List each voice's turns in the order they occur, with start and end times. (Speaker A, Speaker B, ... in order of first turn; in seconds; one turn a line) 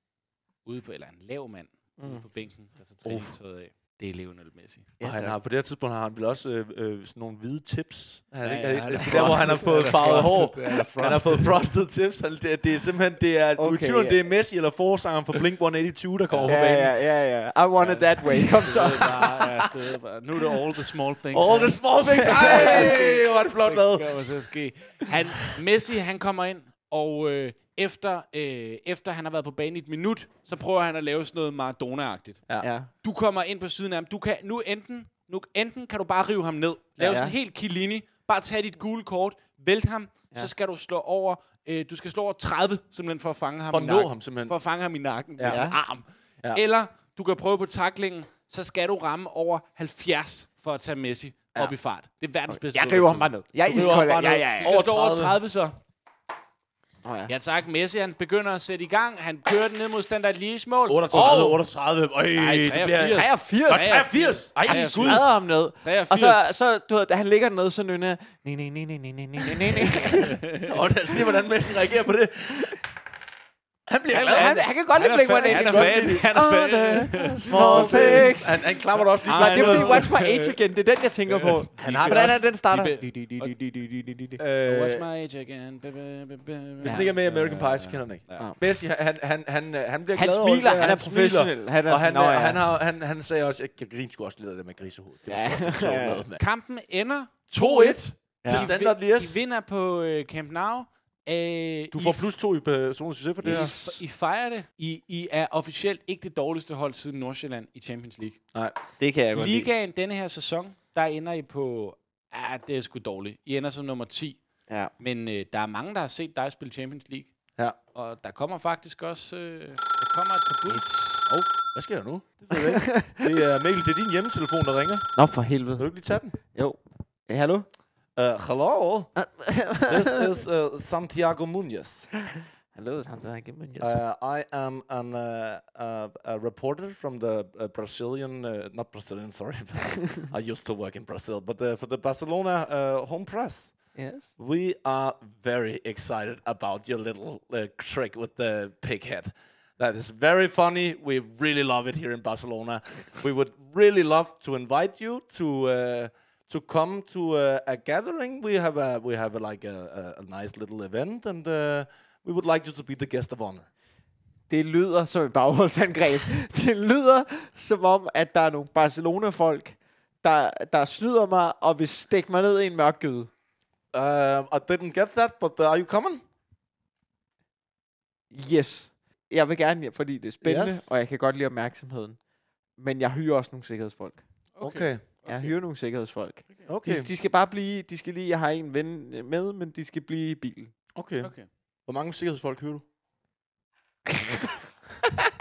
Speaker A: 0.6-4.9
Speaker B: 2.0-2.2
Speaker C: 3.0-3.3
Speaker B: 5.0-5.3
Speaker C: 5.0-16.9
Speaker A: 8.4-11.6
Speaker B: 9.0-10.3
Speaker B: 13.6-14.2
Speaker A: 16.3-16.6
Speaker B: 16.4-19.6
Speaker A: 17.8-32.4
Speaker C: 21.3-24.2
Speaker B: 22.2-23.0
Speaker B: 32.6-32.9
Speaker A: 33.0-53.3
Speaker B: 37.0-37.3
Speaker C: 43.7-44.5
Speaker C: 45.4-45.7
Speaker B: 45.5-45.8
Speaker B: 52.5-54.8
Speaker C: 53.6-55.4
Speaker A: 54.6-55.8
Speaker B: 57.0-57.3
Speaker A: 57.3-61.6
Speaker C: 60.9-65.2
Speaker A: 62.3-65.3
Speaker B: 63.0-64.1
Speaker B: 64.6-70.4
Speaker A: 65.8-66.4
Speaker A: 69.8-70.7
Speaker C: 70.6-72.8
Speaker C: 73.9-74.6
Speaker A: 74.1-78.5
Speaker B: 74.1-78.7
Speaker C: 75.3-76.3
Speaker C: 77.2-80.1
Speaker A: 79.0-80.6
Speaker B: 79.3-84.4
Speaker A: 81.3-83.5
Speaker C: 81.8-82.4
Speaker C: 84.4-85.0
Speaker A: 84.6-88.5
Speaker B: 86.8-87.1
Speaker C: 86.8-96.4
Speaker B: 90.1-92.7
Speaker B: 95.3-96.3
Speaker A: 96.4-102.3
Speaker C: 97.5-99.4
Speaker B: 98.4-98.7
Speaker C: 101.9-103.7
Speaker B: 103.4-104.0
Speaker A: 103.4-108.4
Speaker B: 109.0-109.7
Speaker A: 109.3-114.4
Speaker A: 115.0-117.3
Speaker A: 117.9-120.9
Speaker B: 120.7-121.4
Speaker C: 121.3-125.1
Speaker B: 122.5-123.3
Speaker B: 125.2-125.9
Speaker C: 125.8-126.4
Speaker B: 126.5-127.7
Speaker C: 128.2-129.1
Speaker B: 129.2-130.3
Speaker C: 129.8-132.1
Speaker B: 132.7-134.0
Speaker C: 133.8-143.8
Speaker B: 143.9-144.3
Speaker C: 144.4-163.7
Speaker B: 164.5-173.3
Speaker C: 173.9-176.2
Speaker B: 178.3-182.2
Speaker C: 180.4-180.9
Speaker B: 182.8-184.2
Speaker A: 184.5-185.5
Speaker C: 184.6-185.0
Speaker B: 185.2-190.7
Speaker C: 186.7-187.1
Speaker C: 190.9-191.3
Speaker A: 191.2-191.5
Speaker C: 191.8-192.8
Speaker B: 194.1-194.5